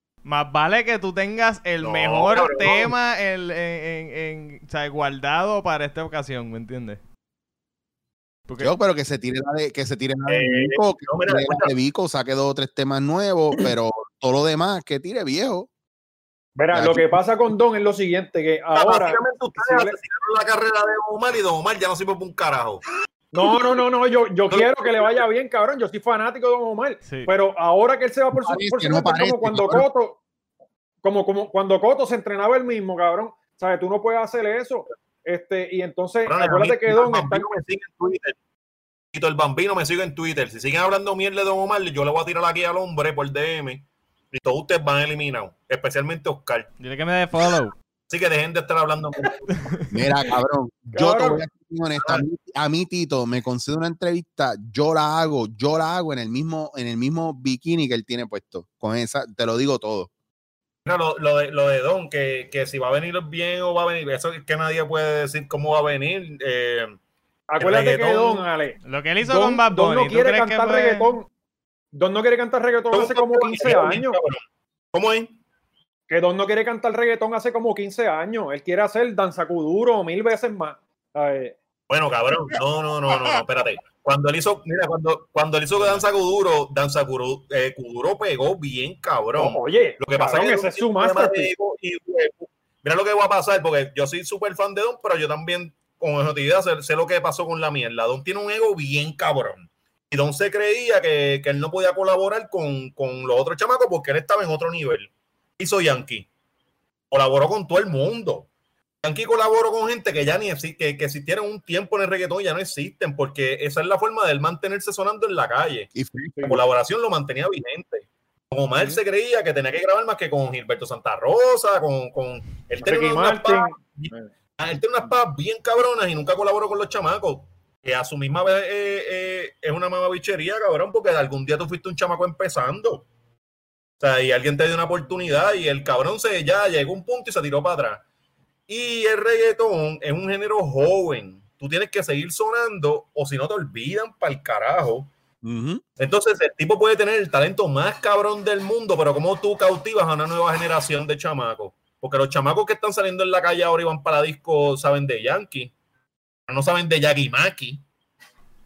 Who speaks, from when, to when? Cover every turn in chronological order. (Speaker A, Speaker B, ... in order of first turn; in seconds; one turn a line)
Speaker A: 0.2-7.0
Speaker B: 1.8-2.9
Speaker A: 8.5-8.7
Speaker C: 8.6-15.7
Speaker B: 10.3-11.7
Speaker D: 16.6-19.9
Speaker C: 16.7-17.1
Speaker B: 18.7-22.8
Speaker D: 23.3-30.2
Speaker B: 24.5-25.2
Speaker A: 27.0-27.3
Speaker C: 28.3-29.9
Speaker D: 31.0-37.5
Speaker B: 36.3-38.4
Speaker B: 39.1-46.7
Speaker A: 46.8-47.7
Speaker B: 48.1-49.6
Speaker C: 49.9-60.1
Speaker D: 50.9-51.4
Speaker B: 52.0-52.2
Speaker B: 60.8-66.9
Speaker D: 67.5-71.3
Speaker B: 67.6-68.4
Speaker A: 68.8-71.1
Speaker D: 71.9-74.2
Speaker B: 72.9-74.4
Speaker B: 74.9-75.4
Speaker D: 76.1-81.6
Speaker B: 81.9-106.3
Speaker A: 85.8-86.0
Speaker D: 89.4-91.5
Speaker B: 107.1-108.5
Speaker B: 109.0-115.9
Speaker C: 115.9-116.5
Speaker B: 116.4-133.1
Speaker D: 122.8-124.3
Speaker B: 134.0-138.0
Speaker B: 138.7-145.1
Speaker C: 145.4-145.8
Speaker B: 146.0-155.7
Speaker B: 156.5-157.8